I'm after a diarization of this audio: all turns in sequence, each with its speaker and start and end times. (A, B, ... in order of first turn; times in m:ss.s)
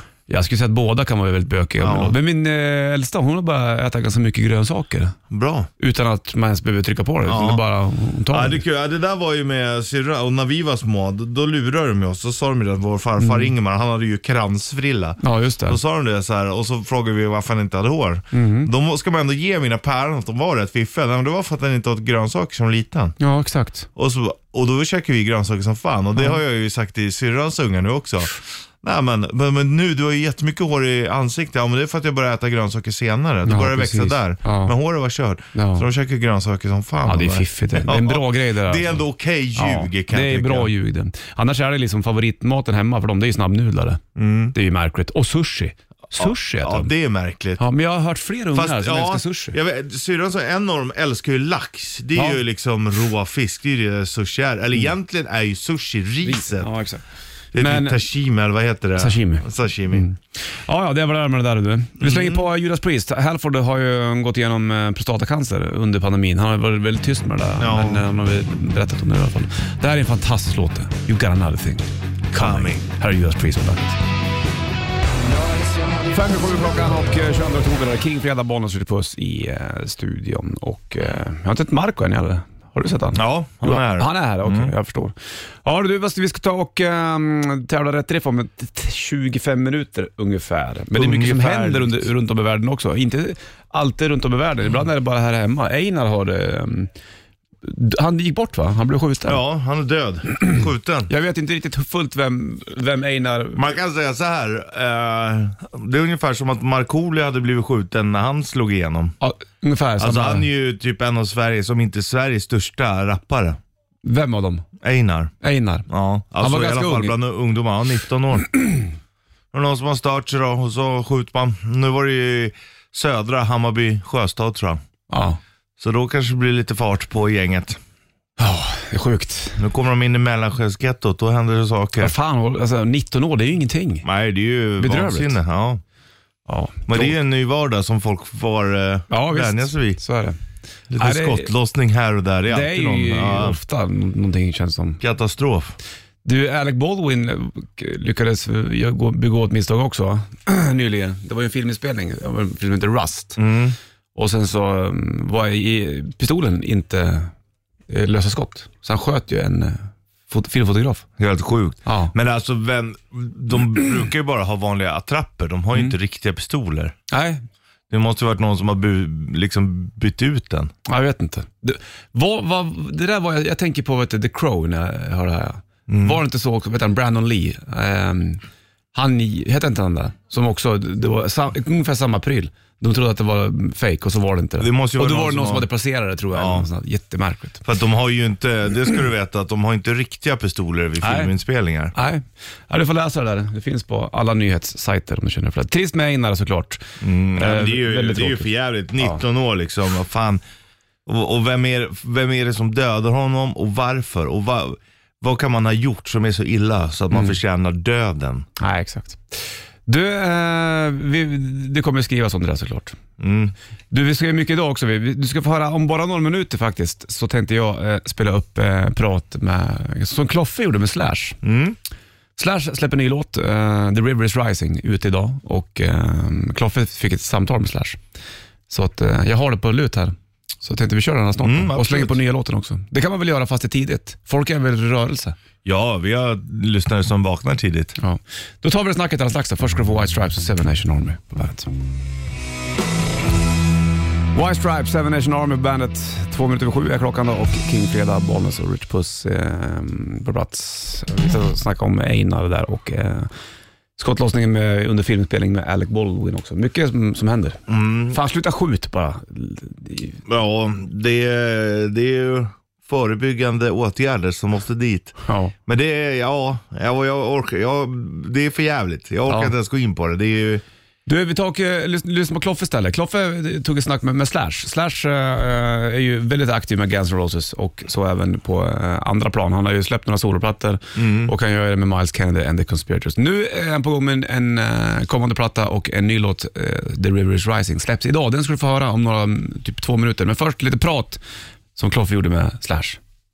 0:00.3-0:05.2 A
0:01.8-0:02.1 B
0:05.3-0:05.7 B
0:05.8-0:08.6 A
0:07.3-0:07.6 B
0:08.3-0:23.2 B
0:13.2-0:13.5 A
0:15.2-0:15.8 A
0:18.3-0:18.7 A
0:23.2-0:23.9 A
0:24.0-0:40.7 B
0:33.4-0:34.7 A
0:35.5-0:35.8 A
0:37.0-0:44.0 A
0:44.2-0:44.5 B
0:44.5-0:46.9 A
0:46.2-0:47.6 B
0:47.6-0:49.5 A
0:48.5-0:56.7 B
0:52.1-0:52.4 A
0:56.2-0:57.0 A
0:57.5-1:00.0 B
0:57.6-0:58.0 A
0:59.0-1:14.0 A
1:02.0-1:02.4 B
1:07.6-1:08.0 B
1:12.3-1:12.8 B
1:16.0-1:36.9 A
1:23.1-1:24.7 B
1:31.0-1:32.0 B
1:37.6-1:39.4 A
1:39.3-1:41.1 B
1:41.1-1:43.6 A
1:43.5-1:49.2 B
1:49.2-1:50.5 A
1:50.0-1:53.6 B
1:54.0-1:54.6 A
1:54.8-1:55.3 B
1:55.4-1:55.9 A
1:55.9-1:58.6 B
1:56.4-1:57.1 A
1:59.5-2:04.8 B
2:05.1-2:05.4 A
2:05.8-2:07.8 B
2:08.4-2:09.6 A
2:09.6-2:12.1 B
2:12.0-2:14.0 A
2:14.0-2:15.8 B
2:14.8-2:15.4 A
2:16.5-2:17.2 A
2:16.9-2:20.0 B
2:19.1-2:20.4 A
2:20.9-2:23.6 B
2:21.0-2:21.5 A
2:22.5-2:25.0 A
2:25.0-2:25.8 B
2:26.2-2:33.4 A
2:33.4-2:33.8 B
2:34.1-2:37.3 A
2:37.9-2:41.0 A
2:41.2-2:47.0 B
2:41.8-2:42.1 A
2:47.1-2:47.4 A
2:47.9-2:50.7 B
2:50.9-2:58.4 A
2:55.9-2:56.2 B
2:58.9-3:07.6 A
3:04.6-3:05.7 B
3:06.3-3:06.6 B
3:07.6-3:11.9 B
3:11.0-3:11.3 A
3:11.9-3:16.8 A
3:17.0-3:20.4 B
3:17.4-3:19.2 A
3:21.0-3:28.5 B
3:28.6-3:33.0 A
3:33.2-3:33.5 B
3:33.9-3:41.4 A
3:41.4-3:41.8 B
3:42.4-3:48.0 A
3:48.7-3:55.3 A
3:51.4-3:52.2 B
3:55.6-3:58.0 B
3:58.0-4:01.7 A
4:04.3-4:13.3 A
4:14.0-4:20.2 A
4:17.7-4:18.2 B
4:20.3-4:30.6 B
4:25.2-4:25.5 A
4:29.3-4:29.5 A
4:31.1-4:51.2 A
4:41.0-4:41.3 B
4:51.8-4:53.0 A